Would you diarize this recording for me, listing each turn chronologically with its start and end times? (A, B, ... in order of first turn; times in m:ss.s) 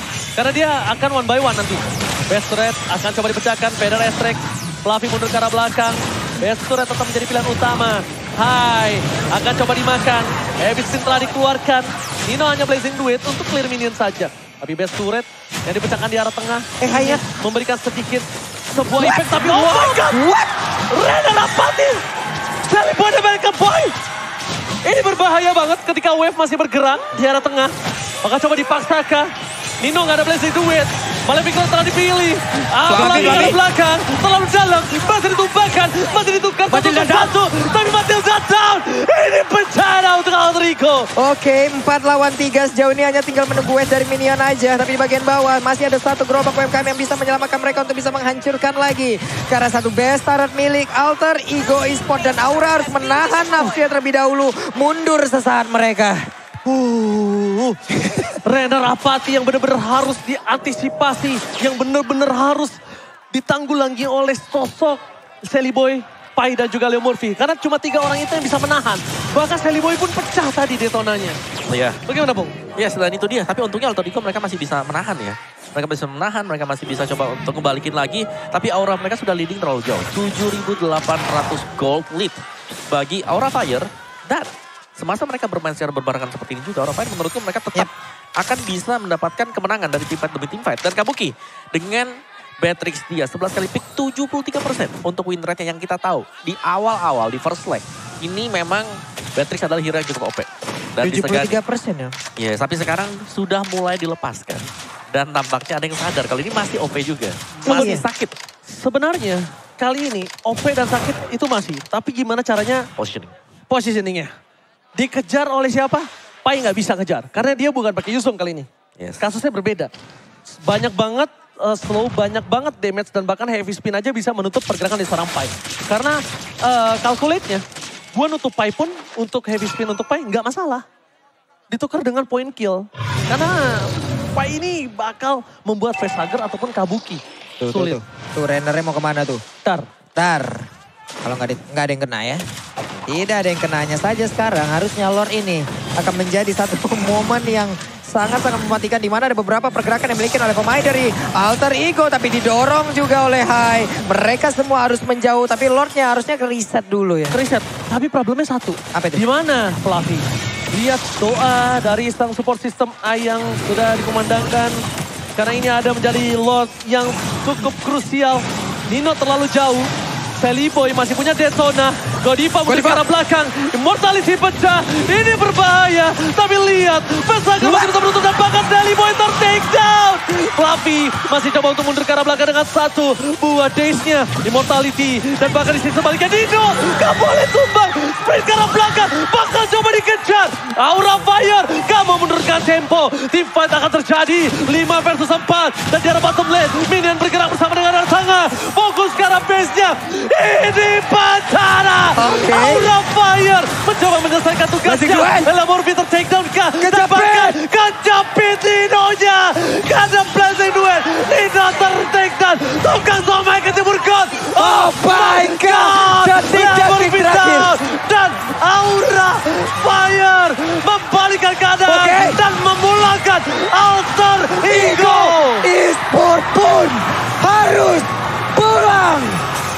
0:00.4-0:20.2 A
0:16.8-0:17.2 B
0:18.9-0:20.5 B
0:20.9-0:22.0 A
0:22.7-0:23.9 A
0:24.8-0:29.3 A
0:29.8-0:41.1 A
0:32.9-0:33.6 B
0:32.9-0:33.4 C
0:36.7-0:37.3 B
0:41.2-0:56.2 B
0:56.6-0:57.8 A
0:57.9-0:58.4 B
0:58.4-1:02.8 A
1:03.3-1:11.4 A
1:11.7-1:12.0 C
1:12.0-1:12.6 A
1:12.8-1:22.4 C
1:22.9-1:32.1 C
1:32.6-1:41.6 C
1:41.0-1:42.2 B
1:42.4-1:48.4 C
1:47.6-1:48.0 B
1:48.6-1:52.8 A
1:53.0-1:53.3 C
1:53.7-1:54.3 A
1:54.9-1:58.7 A
1:59.2-1:59.9 A
2:00.5-2:10.8 A
2:11.7-2:18.0 A
2:17.6-2:19.4 B
2:20.2-2:20.7 B
2:21.2-2:22.4 B
2:23.1-2:37.4 B
2:37.3-2:44.7 A
2:38.9-2:39.2 B
2:45.4-2:49.9 A
2:50.4-3:45.7 A
2:52.6-2:53.0 B
2:57.6-2:57.9 B
3:22.2-3:22.9 B
3:24.8-3:25.5 B
3:26.8-3:27.6 B
3:34.5-3:37.7 B
3:41.8-3:42.4 B
3:44.6-3:49.4 B